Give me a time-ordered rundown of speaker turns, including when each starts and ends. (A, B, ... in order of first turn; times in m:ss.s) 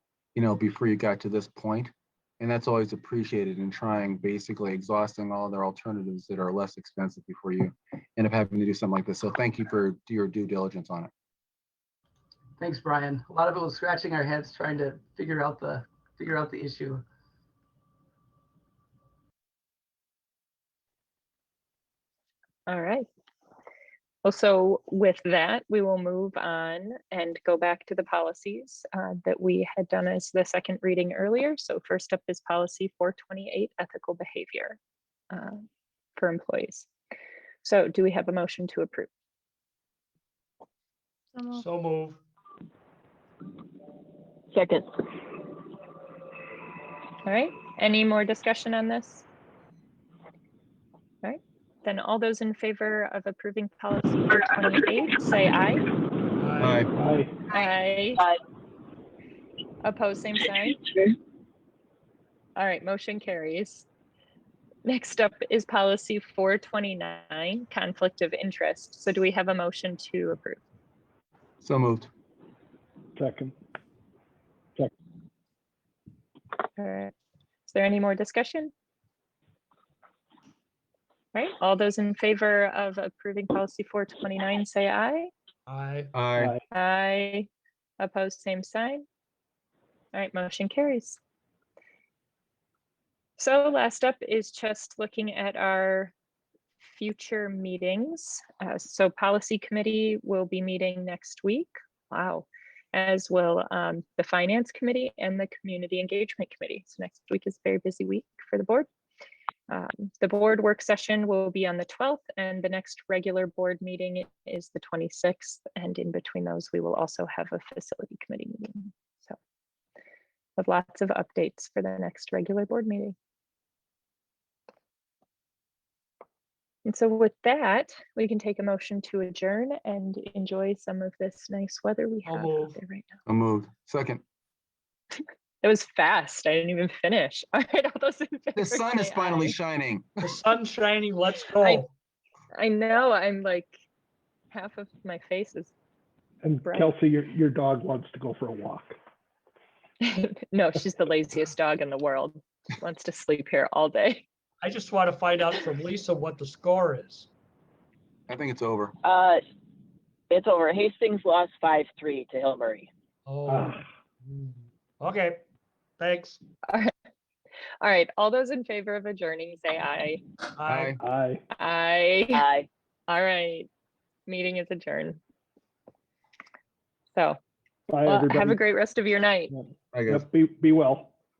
0:00.3-0:11.1 A
0:12.6-0:17.0 B
0:22.7-0:23.1 C
0:24.2-0:34.8 C
0:35.3-0:35.6 C
0:36.2-0:36.9 C
0:37.6-0:39.1 C
0:41.5-0:42.2 D
0:44.5-0:44.9 E
0:47.2-0:49.2 C
0:51.2-0:55.9 C
0:56.4-0:56.8 D
0:56.6-0:56.9 A
0:57.0-0:57.4 F
0:57.5-0:58.2 C
0:59.8-1:00.8 C
1:02.6-1:03.8 C
1:04.8-1:10.6 C
1:11.6-1:12.1 A
1:13.2-1:13.5 F
1:16.8-1:17.1 C
1:17.7-1:18.7 C
1:21.3-1:25.3 C
1:25.7-1:26.1 D
1:26.1-1:26.5 A
1:26.4-1:26.6 F
1:26.7-1:29.0 C
1:30.1-1:31.2 C
1:33.4-1:36.1 C
1:36.8-1:48.9 C
1:49.7-1:59.4 C
2:00.6-2:03.2 C
2:06.8-2:13.1 C
2:12.2-2:12.8 D
2:13.3-2:14.2 A
2:15.6-2:19.6 C
2:18.6-2:20.3 A
2:20.2-2:21.9 D
2:22.5-2:23.7 C
2:24.5-2:25.7 C
2:26.4-2:29.0 F
2:26.6-2:26.9 C
2:30.0-2:34.2 C
2:34.6-2:37.3 D
2:38.3-2:39.0 A
2:39.0-2:39.4 E
2:40.3-2:42.9 E
2:43.2-2:45.4 D
2:43.5-2:43.8 F
2:46.0-2:46.4 D
2:47.8-2:50.2 C
2:50.6-2:51.0 D
2:50.7-2:51.0 A
2:51.0-2:51.4 F
2:51.5-2:52.5 C
2:52.3-2:52.7 E
2:53.1-2:53.7 C
2:54.3-2:55.2 C
2:57.9-2:58.6 F
2:58.0-2:59.5 C
2:59.5-3:01.1 F
2:59.9-3:00.2 A